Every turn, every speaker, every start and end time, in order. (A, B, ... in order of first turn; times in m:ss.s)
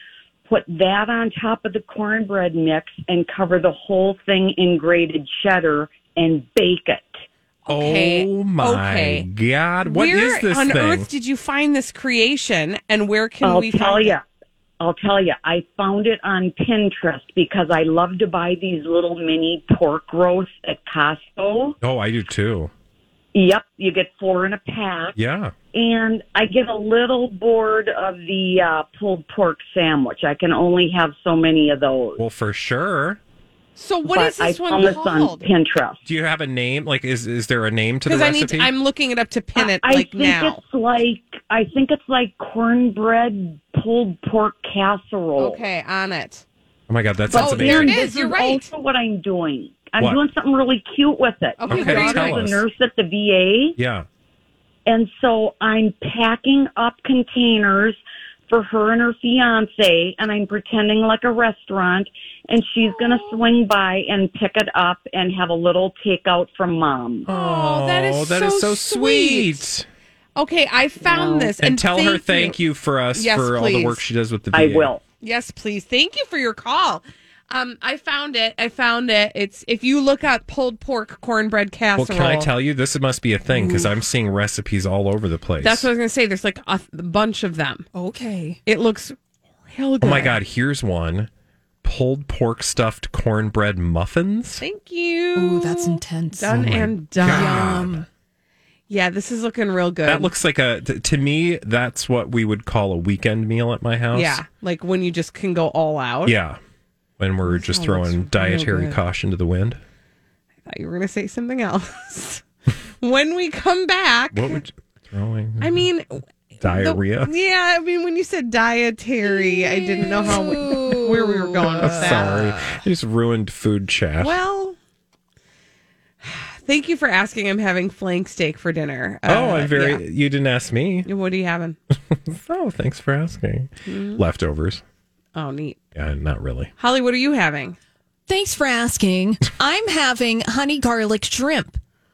0:00.4-0:07.2 A
0:07.7-0:09.3 B
0:07.7-0:11.1 C
0:09.8-0:14.2 B
0:13.4-0:14.2 A
0:14.8-0:21.8 A
0:21.8-0:22.7 C
0:23.3-0:25.2 A
0:25.2-0:25.5 C
0:25.7-0:32.2 A
0:32.2-0:33.2 C
0:33.8-0:35.5 B
0:34.0-0:36.0 A
0:36.1-0:38.7 C
0:38.1-0:40.6 B
0:39.6-0:45.6 A
0:45.4-0:46.4 B
0:46.9-0:48.0 C
0:47.3-0:53.8 A
0:47.3-0:48.7 B
0:51.6-0:52.5 B
0:51.7-0:52.6 C
0:53.8-0:54.1 C
0:54.9-1:07.3 A
1:02.8-1:03.4 B
1:07.3-1:09.6 B
1:07.3-1:09.9 C
1:10.4-1:12.6 B
1:11.1-1:14.9 C
1:13.2-1:14.0 B
1:14.5-1:15.0 A
1:15.2-1:22.5 B
1:22.0-1:25.9 C
1:23.5-1:23.9 B
1:25.6-1:27.9 B
1:27.9-1:28.6 D
1:28.7-1:29.2 B
1:29.7-1:30.4 B
1:30.0-1:31.3 C
1:31.8-1:34.6 C
1:34.6-1:37.9 B
1:35.4-1:38.1 D
1:36.5-1:38.0 C
1:38.9-1:40.3 B
1:40.1-1:44.4 C
1:44.1-1:46.4 B
1:46.3-1:46.6 C
1:47.2-1:49.8 C
1:47.5-1:49.0 B
1:50.7-1:52.4 B
1:53.0-1:54.6 B
1:54.3-1:55.9 C
1:55.6-2:02.5 B
1:56.6-1:57.3 C
1:59.5-2:02.6 D
2:01.8-2:04.4 C
2:04.2-2:04.8 B
2:06.2-2:10.0 B
2:09.3-2:11.1 C
2:11.1-2:11.8 B
2:12.1-2:14.8 C
2:13.9-2:14.2 B
2:15.4-2:15.8 B
2:16.0-2:16.7 C
2:16.8-2:17.8 B
2:18.3-2:21.8 D